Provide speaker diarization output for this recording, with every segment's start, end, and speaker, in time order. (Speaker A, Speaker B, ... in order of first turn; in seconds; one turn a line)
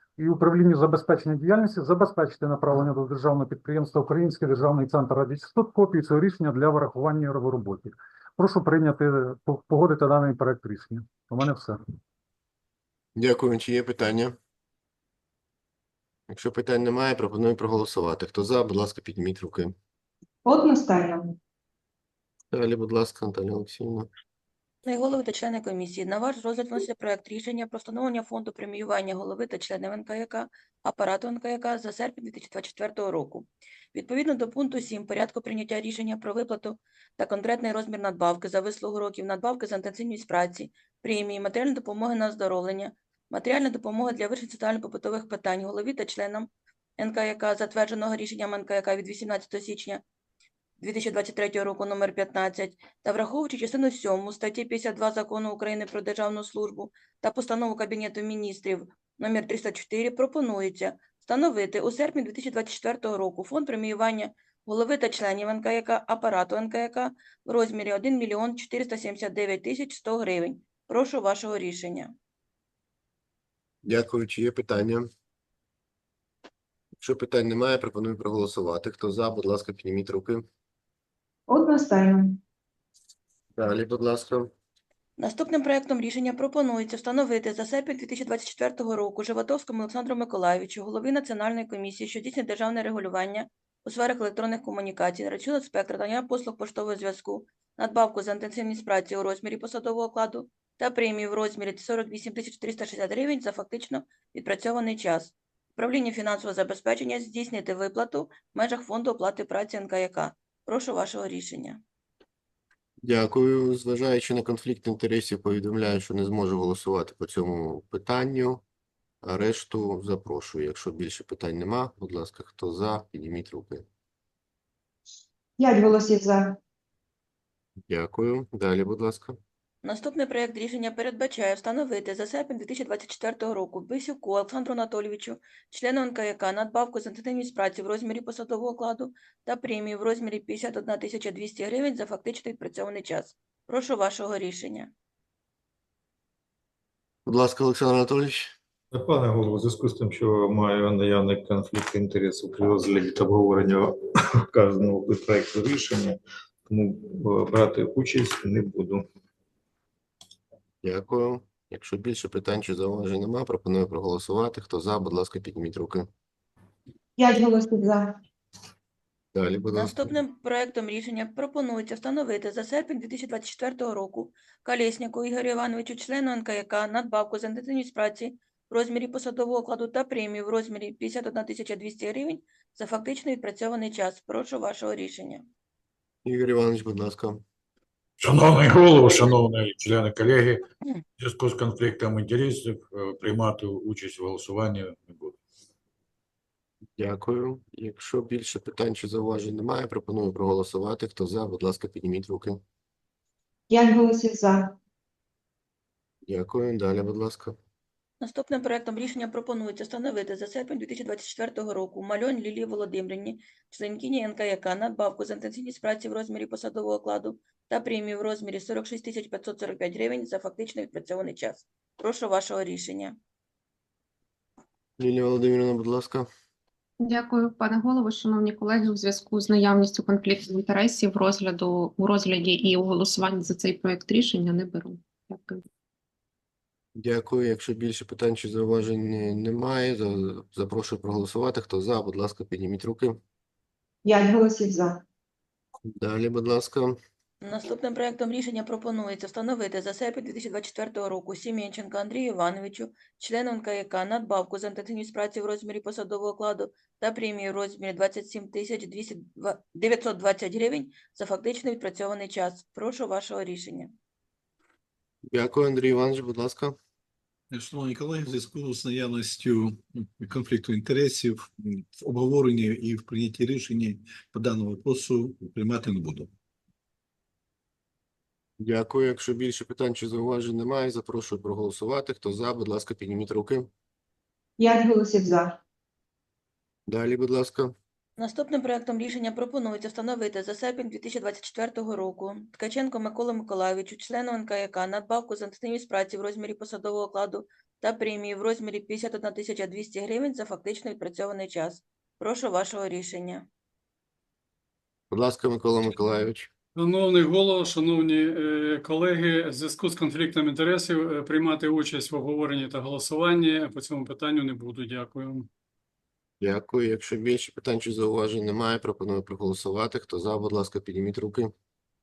Speaker A: 0.2-11.8
Speaker B: 13.2-14.3
Speaker B: 16.3-19.7
Speaker C: 20.4-21.4
Speaker B: 22.5-24.1
Speaker D: 24.8-50.0
Speaker D: 50.8-72.1
Speaker B: 73.8-75.1
Speaker B: 77.0-80.4
Speaker C: 81.5-82.4
Speaker B: 83.6-84.5
Speaker D: 85.2-111.8
Speaker B: 113.0-118.6
Speaker B: 119.2-123.8
Speaker C: 125.6-126.6
Speaker B: 127.9-129.4
Speaker D: 129.8-144.9
Speaker B: 147.3-148.5
Speaker E: 148.9-153.9
Speaker E: 154.5-159.0
Speaker B: 160.8-166.1
Speaker C: 167.2-168.2
Speaker B: 169.3-170.1
Speaker D: 169.7-185.4
Speaker B: 186.2-187.4
Speaker F: 188.2-190.6
Speaker F: 191.2-195.4
Speaker B: 197.0-202.6
Speaker C: 203.7-204.8
Speaker B: 206.2-207.6
Speaker D: 208.2-223.2
Speaker B: 225.0-226.3
Speaker G: 227.0-235.6
Speaker B: 237.0-243.2
Speaker C: 244.0-245.0
Speaker B: 246.0-247.0
Speaker D: 247.4-263.9
Speaker B: 265.3-266.7
Speaker H: 267.5-276.3
Speaker B: 278.6-283.7
Speaker C: 284.6-285.6
Speaker B: 286.9-287.7
Speaker D: 288.2-303.4
Speaker B: 305.1-306.5
Speaker I: 306.8-315.5
Speaker B: 316.4-321.5